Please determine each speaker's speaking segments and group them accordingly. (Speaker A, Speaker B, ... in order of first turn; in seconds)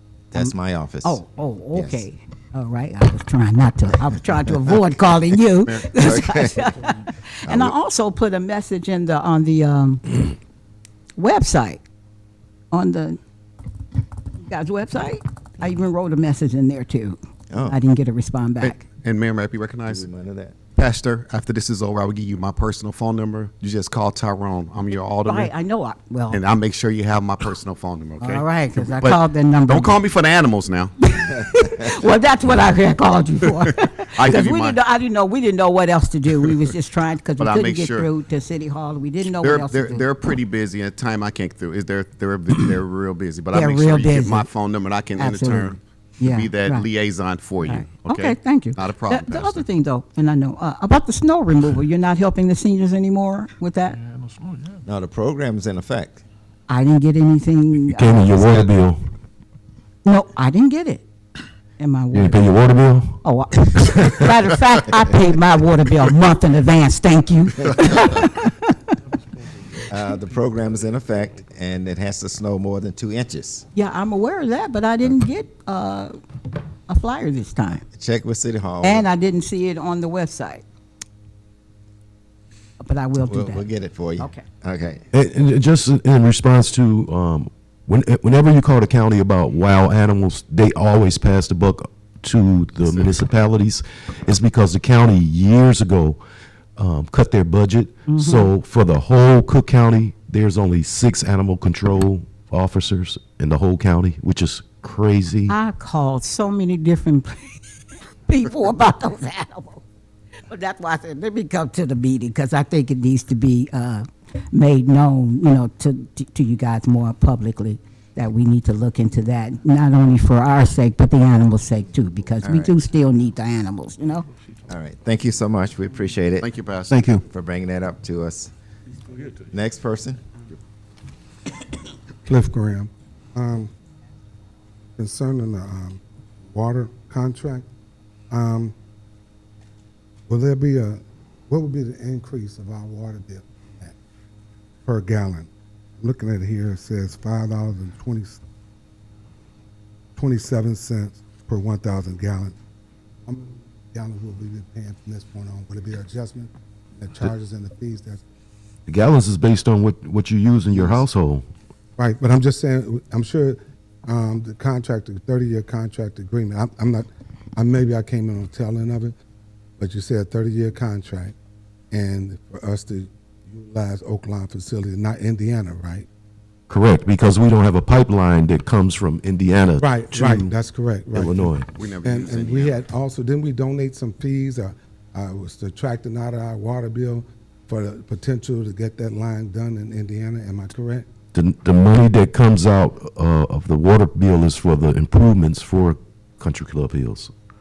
Speaker A: 0.3-1.2, 1.7-2.0, 5.7-6.7, 7.5-7.8, 17.5-17.8, 19.9-20.6, 54.9-56.2, 69.9-73.7, 77.9-79.1, 83.3-85.1, 122.4-122.7, 124.7-126.5, 127.1-128.5, 129.4-130.2
Speaker B: 0.3-10.3, 11.2-11.8, 12.7-13.2, 14.4-18.9, 25.2-26.4, 28.2-30.0, 31.1-40.1, 43.5-44.5, 45.1-46.9, 47.6-54.0, 56.7-58.7, 60.0-61.0, 61.8-62.5, 63.2-68.7, 73.7-76.2, 76.9-77.8, 78.8-80.6, 82.8-84.5, 98.1-98.5, 105.5-107.6, 108.2-109.8, 110.5-124.3
Speaker C: 18.6-20.1, 20.7-25.5, 26.3-31.0, 34.2-34.8, 37.4-38.1, 39.4-45.8, 46.3-49.7, 126.4-127.0, 181.7-182.8
Speaker D: 57.9-59.0, 62.1-63.2, 64.0-64.2, 85.1-96.2, 96.8-105.5, 158.9-161.4, 176.7-180.5, 181.1-181.7, 191.3-197.3
Speaker E: 132.3-133.7, 135.0-136.0, 136.5-137.7, 138.3-138.7, 140.3-143.9, 144.8-148.4, 150.2-152.6, 153.3-158.2, 160.7-161.1, 162.0-169.2, 169.8-171.3, 171.9-176.1, 179.8-191.1